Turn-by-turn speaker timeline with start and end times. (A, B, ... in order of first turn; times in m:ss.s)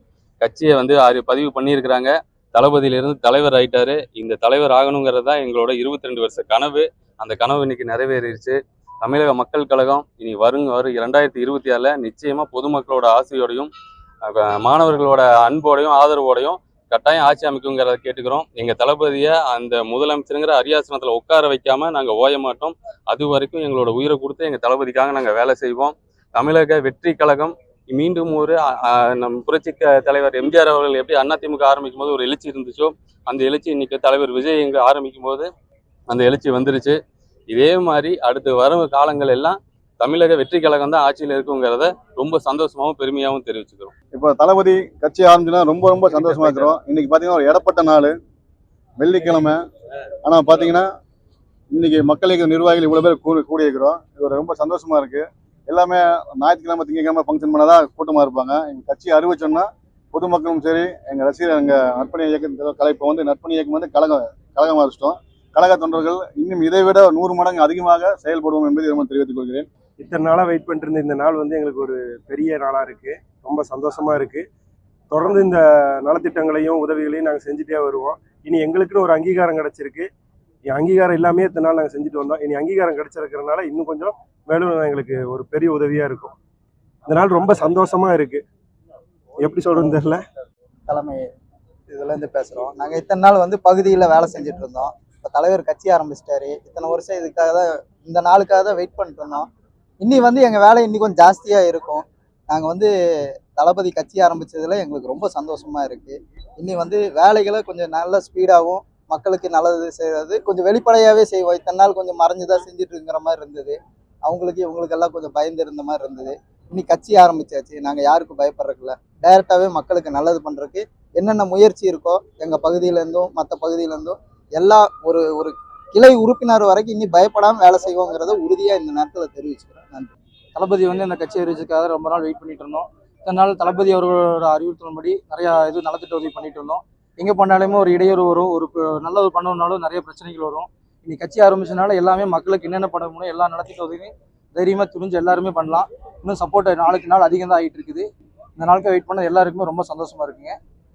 0:00.4-0:13.7 A
0:14.2-0:35.5 A
0:36.1-0:37.0 A
0:37.5-0:43.9 A
0:44.1-0:48.2 B
0:46.1-0:46.8 A
0:49.0-0:49.6 B
0:50.2-0:50.9 B
0:51.7-1:09.7 B
1:10.0-1:14.5 C
1:15.1-1:20.1 C
1:20.7-1:26.3 C
1:27.1-1:28.4 C
1:29.4-1:30.2 C
1:30.9-1:31.2 D
1:31.9-1:39.4 D
1:40.0-1:42.9 D
1:43.6-2:10.1 D
2:10.6-2:28.1 E
2:28.6-2:30.6 E